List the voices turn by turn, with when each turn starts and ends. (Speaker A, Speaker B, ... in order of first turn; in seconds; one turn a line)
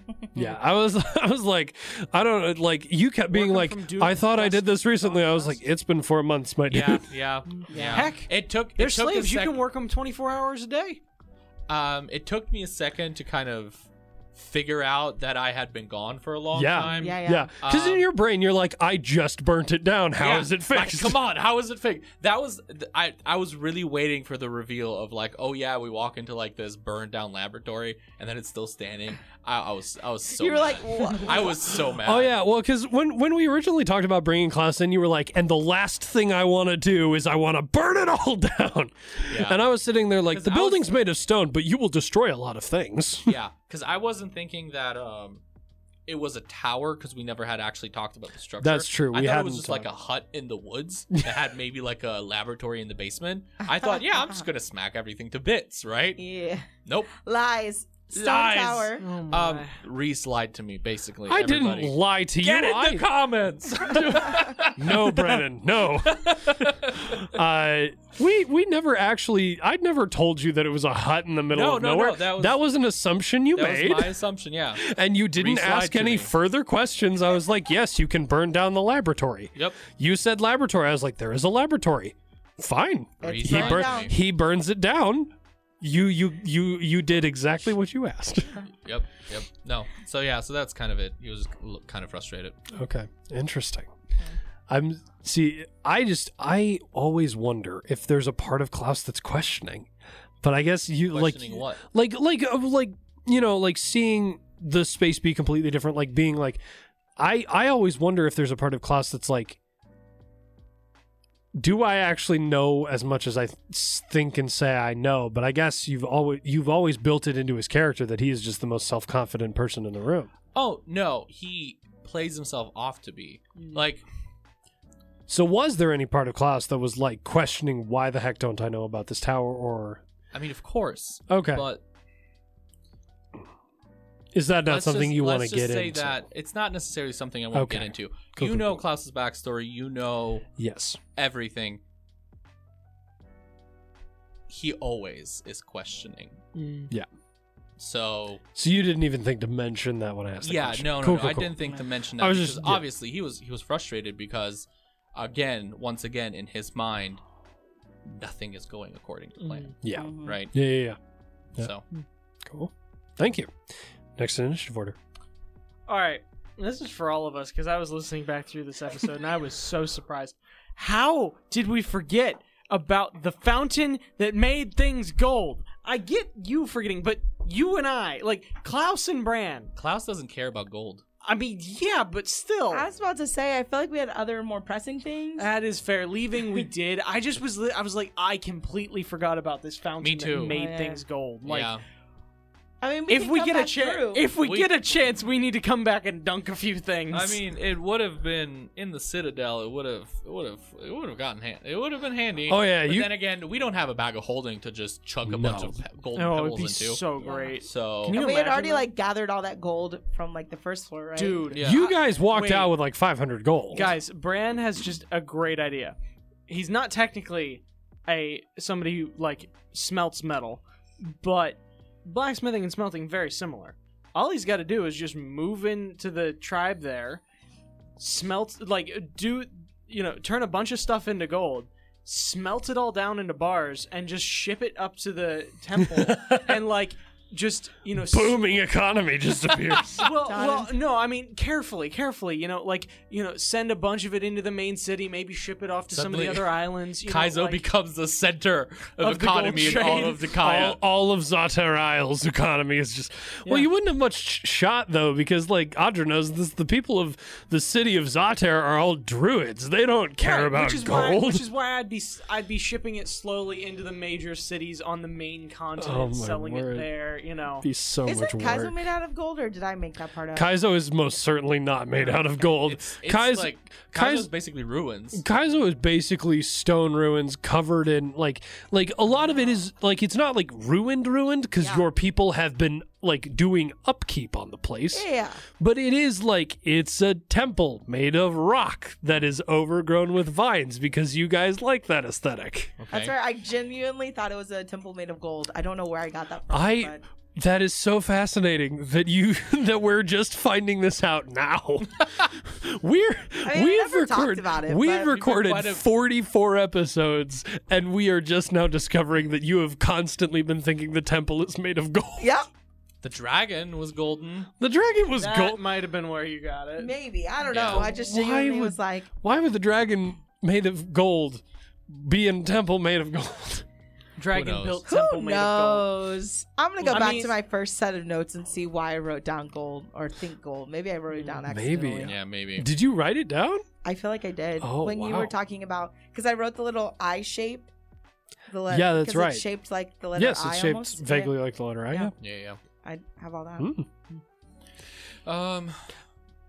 Speaker A: 0.1-0.4
Speaker B: 0.3-7.0
Speaker C: 3.3-5.6
Speaker D: 6.7-9.6
Speaker C: 7.6-11.0
Speaker A: 7.8-8.0
Speaker D: 11.7-18.0
Speaker B: 16.5-21.2
Speaker A: 16.9-17.5
Speaker D: 20.2-32.3
Speaker A: 30.4-31.8
Speaker B: 32.0-43.4
Speaker D: 39.3-39.6
Speaker D: 40.3-40.9
Speaker D: 43.2-45.4
Speaker D: 46.1-56.2
Speaker B: 48.6-49.9
Speaker A: 53.7-54.4
Speaker A: 56.2-59.0
Speaker D: 56.9-57.1
Speaker D: 58.1-65.4
Speaker C: 59.0-59.8
Speaker B: 61.3-63.1
Speaker B: 63.9-74.2
Speaker D: 66.0-67.2
Speaker D: 71.5-72.6
Speaker D: 73.5-74.8
Speaker B: 74.8-88.6
Speaker D: 75.4-76.3
Speaker D: 79.5-79.8
Speaker D: 83.2-84.1
Speaker A: 83.2-84.1
Speaker D: 88.8-92.6
Speaker B: 92.7-93.9
Speaker B: 94.7-99.9
Speaker B: 100.4-106.6
Speaker D: 101.1-101.8
Speaker B: 107.2-109.6
Speaker B: 111.6-120.3
Speaker D: 120.5-124.0
Speaker B: 125.3-130.0
Speaker D: 130.3-131.8
Speaker B: 131.3-131.7
Speaker B: 134.3-136.2
Speaker D: 134.7-140.5
Speaker B: 137.5-138.8
Speaker B: 140.6-141.0
Speaker D: 141.1-141.8
Speaker D: 144.5-146.4
Speaker C: 146.5-146.9
Speaker D: 147.8-148.4
Speaker B: 148.6-151.6
Speaker D: 150.4-157.2
Speaker B: 152.2-152.8
Speaker D: 158.0-160.5
Speaker C: 159.4-159.7
Speaker B: 159.8-161.0
Speaker A: 159.9-160.4
Speaker D: 161.6-161.8
Speaker B: 162.4-163.5
Speaker B: 164.2-165.0
Speaker C: 165.9-179.7
Speaker D: 179.8-181.0
Speaker C: 181.2-182.9
Speaker A: 182.7-185.5
Speaker C: 185.4-191.7
Speaker D: 190.0-190.6
Speaker A: 190.5-191.0
Speaker D: 191.4-191.8
Speaker A: 192.8-194.3
Speaker C: 193.1-197.4
Speaker D: 194.4-194.7
Speaker D: 197.1-207.1
Speaker B: 202.5-203.1
Speaker B: 205.2-205.8
Speaker C: 206.1-208.9
Speaker A: 207.2-207.5
Speaker D: 207.6-208.2
Speaker A: 208.1-211.5
Speaker C: 211.2-212.7
Speaker D: 211.5-211.9
Speaker B: 211.6-213.9
Speaker C: 213.7-215.9
Speaker C: 216.5-227.2
Speaker C: 228.0-238.4
Speaker B: 235.8-236.6
Speaker B: 238.0-240.1
Speaker C: 240.0-247.6
Speaker A: 240.2-240.7
Speaker D: 245.9-250.8
Speaker C: 249.0-250.6
Speaker B: 250.3-261.4
Speaker C: 260.2-267.7
Speaker B: 265.8-266.9
Speaker B: 267.6-268.8
Speaker A: 268.1-270.5
Speaker B: 270.3-274.3
Speaker D: 272.4-275.2
Speaker B: 275.1-285.1
Speaker A: 281.6-281.9
Speaker A: 284.9-285.4
Speaker B: 285.6-292.7
Speaker D: 292.8-293.1
Speaker A: 292.9-297.0
Speaker B: 296.5-312.3
Speaker A: 303.4-305.1
Speaker D: 305.0-305.9
Speaker A: 312.2-312.5
Speaker D: 313.0-314.5
Speaker B: 314.6-315.6
Speaker C: 315.2-316.9
Speaker A: 316.8-319.1
Speaker D: 317.4-317.9
Speaker B: 317.7-323.6
Speaker C: 324.2-325.9
Speaker D: 324.3-324.8
Speaker A: 324.9-332.1
Speaker C: 326.8-327.3
Speaker C: 331.1-331.4
Speaker B: 331.5-333.6
Speaker D: 332.0-332.7
Speaker A: 333.8-337.7
Speaker B: 334.6-335.3
Speaker A: 338.5-341.3
Speaker B: 338.7-339.4
Speaker B: 340.1-342.1
Speaker D: 342.2-342.6
Speaker A: 342.8-343.7
Speaker B: 343.6-343.9
Speaker D: 345.2-345.9